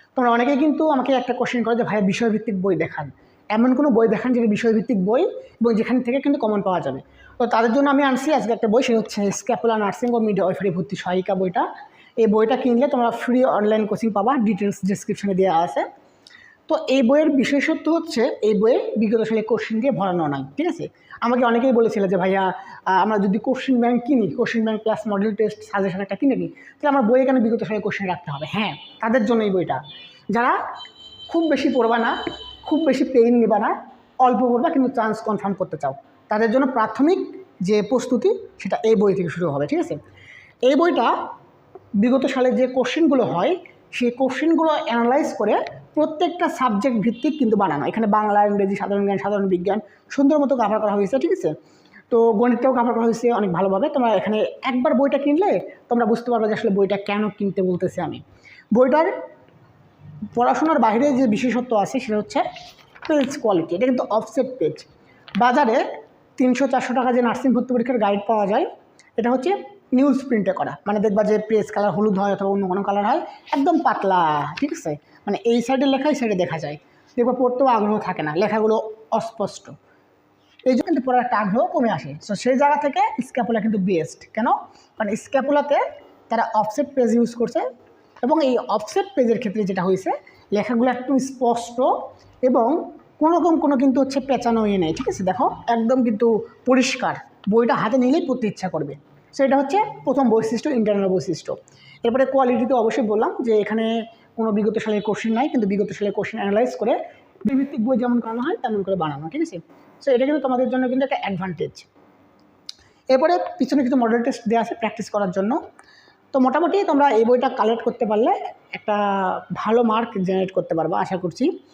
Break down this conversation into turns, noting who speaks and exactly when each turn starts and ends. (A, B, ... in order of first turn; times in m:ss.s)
0:00.2-0:11.7 A
0:12.2-0:15.9 A
0:16.7-0:29.8 A
0:30.3-0:30.6 A
0:31.3-0:40.0 A
0:40.7-0:41.2 A
0:42.0-0:51.5 A
0:52.1-0:58.2 A
0:58.8-0:59.1 A
1:00.4-1:02.4 A
1:03.1-1:04.9 A
1:05.4-1:05.8 A
1:06.4-1:19.8 A
1:20.7-1:27.7 A
1:28.2-1:51.9 A
1:53.1-1:55.6 A
1:56.3-2:01.5 A